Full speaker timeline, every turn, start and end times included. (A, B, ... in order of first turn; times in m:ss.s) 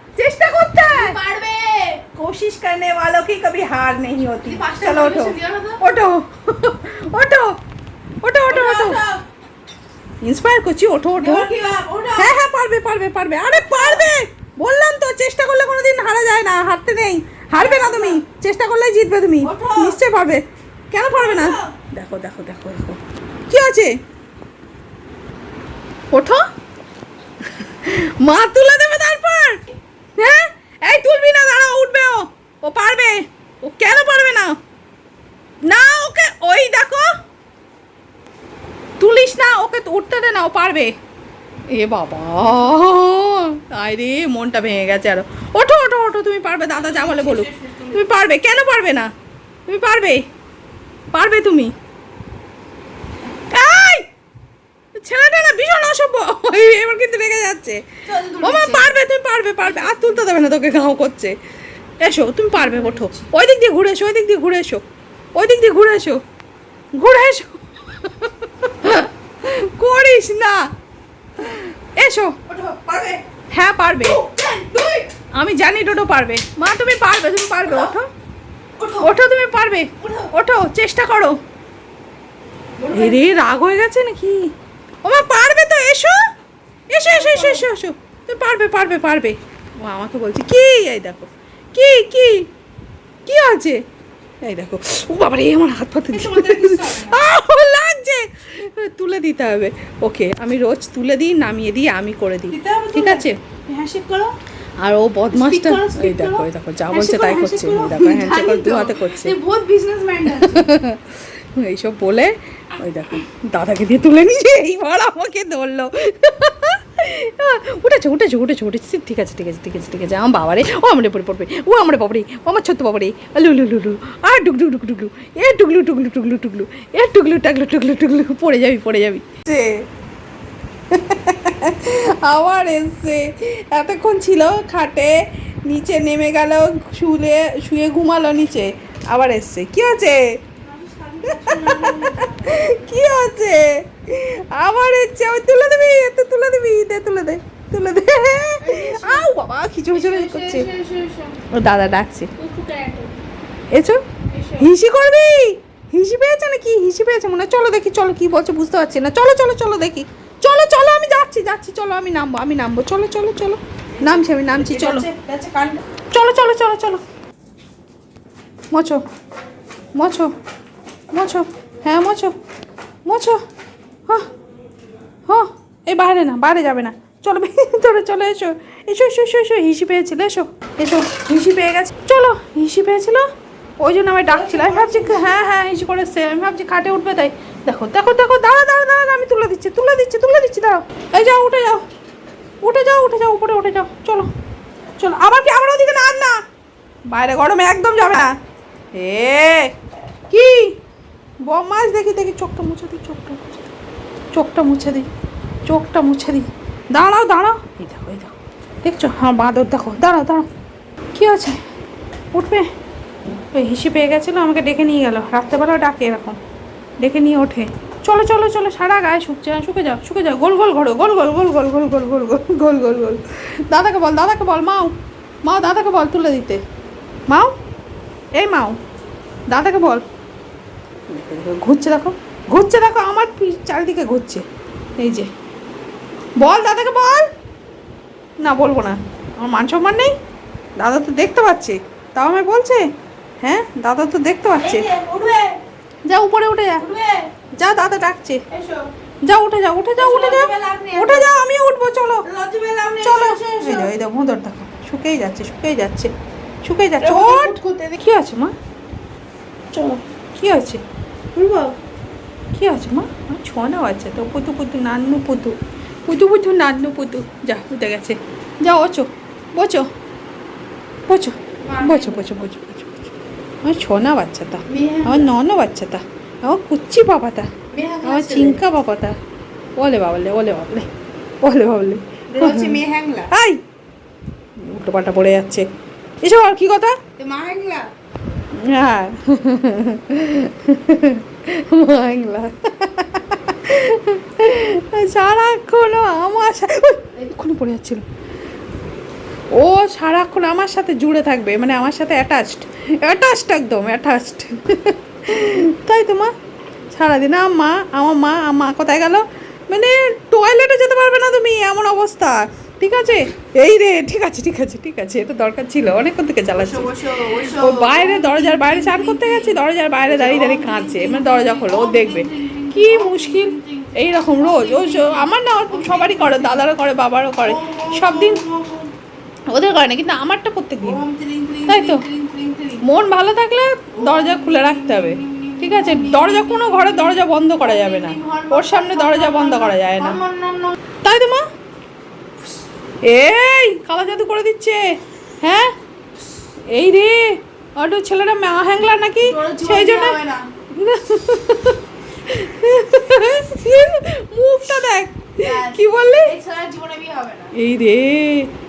0:00.2-0:01.2 A
0:00.8-0:02.0 B
0:02.2-0:07.5 A
0:04.4-0:05.8 B
0:08.2-0:09.0 A
0:08.5-0:09.2 B
0:10.2-0:11.5 A
0:11.2-0:12.3 B
0:12.2-0:23.9 A
0:17.6-0:18.2 B
0:19.4-0:20.0 B
0:21.1-0:21.7 B
0:26.1-0:26.4 A
0:27.6-0:29.6 A
0:30.2-0:34.5 A
0:35.7-0:37.1 A
0:39.0-0:40.9 A
0:41.7-0:49.1 A
0:46.7-0:48.0 B
0:49.7-0:50.2 A
0:51.1-0:51.7 A
0:53.5-0:54.0 A
0:55.0-0:57.8 A
0:58.1-0:59.0 B
0:58.4-1:01.4 A
0:59.6-1:00.2 B
1:02.0-1:04.8 A
1:02.6-1:03.3 B
1:05.4-1:06.2 A
1:07.0-1:10.6 A
1:11.4-1:12.4 A
1:12.5-1:13.2 B
1:13.5-1:14.2 A
1:14.0-1:15.1 B
1:15.4-1:18.1 A
1:17.6-1:17.9 B
1:18.8-1:19.1 B
1:19.0-1:21.4 A
1:20.0-1:20.3 B
1:22.8-1:23.4 B
1:22.9-1:24.5 A
1:25.0-1:26.2 A
1:26.9-1:32.4 A
1:27.1-1:27.7 B
1:33.3-1:33.8 A
1:34.4-1:43.4 A
1:36.1-1:37.2 B
1:42.5-1:44.3 B
1:44.8-1:49.4 A
1:45.3-1:50.7 B
1:50.4-2:09.8 A
2:10.9-2:15.1 A
2:15.7-2:20.2 A
2:20.6-2:22.8 B
2:21.3-2:30.7 A
2:28.6-2:29.3 B
2:29.9-2:31.4 B
2:31.5-2:32.3 A
2:32.4-2:33.1 B
2:33.7-2:34.0 A
2:34.3-2:34.7 B
2:34.6-2:45.1 A
2:44.0-2:45.8 B
2:46.1-2:47.0 A
2:48.7-2:49.0 A
2:50.0-2:50.3 A
2:51.1-2:52.3 A
2:53.1-2:53.4 A
2:55.3-3:03.2 A
3:03.8-3:11.8 A
3:04.3-3:05.5 B
3:12.6-3:14.3 A
3:15.0-3:16.4 A
3:17.1-3:18.3 A
3:18.9-3:19.7 A
3:20.3-3:20.7 A
3:21.4-3:23.6 A
3:24.3-3:25.1 A
3:25.7-3:30.5 A
3:31.2-3:31.6 A
3:32.3-3:32.7 A
3:33.5-3:36.4 A
3:37.0-3:46.6 A
3:48.4-3:48.8 A
3:49.5-3:50.0 A
3:51.1-3:54.4 A
3:55.0-3:55.3 A
3:56.4-3:57.3 A
3:58.4-4:00.1 A
4:00.8-4:02.8 A
4:03.4-4:04.9 A
4:04.6-4:05.6 B
4:06.1-4:06.8 A
4:06.8-4:07.3 B
4:07.6-4:08.4 A
4:08.5-4:08.9 B
4:09.2-4:12.2 A
4:10.0-4:11.3 B
4:12.3-4:13.9 B
4:13.0-4:16.1 A
4:16.6-4:18.5 A
4:17.0-4:18.0 B
4:19.7-4:20.0 B
4:20.4-4:20.8 A
4:21.4-4:21.8 B
4:22.5-4:25.6 A
4:26.1-4:29.9 A
4:31.1-4:33.1 A
4:31.6-4:32.3 B
4:33.6-4:37.5 A
4:34.7-4:35.3 B
4:37.7-4:38.6 B
4:38.0-4:39.2 A
4:39.8-4:40.9 A
4:41.4-4:42.8 A
4:42.3-4:43.3 B
4:43.3-4:43.6 A
4:44.6-4:45.7 A
4:46.2-4:46.9 A
4:47.2-4:47.8 B
4:48.6-4:58.0 A
4:59.6-5:06.3 A
5:06.9-5:28.4 A
5:16.6-5:26.7 B
5:27.4-5:28.9 B
5:29.5-5:31.0 A
5:30.8-5:32.8 B
5:31.7-5:32.0 A
5:32.8-5:40.2 A
5:34.0-5:40.8 B
5:41.0-5:41.4 A
5:43.0-5:45.7 A
5:46.7-5:50.2 A
5:49.2-5:50.4 B
5:50.8-5:56.3 A
5:55.4-5:57.5 B
5:57.6-5:58.5 A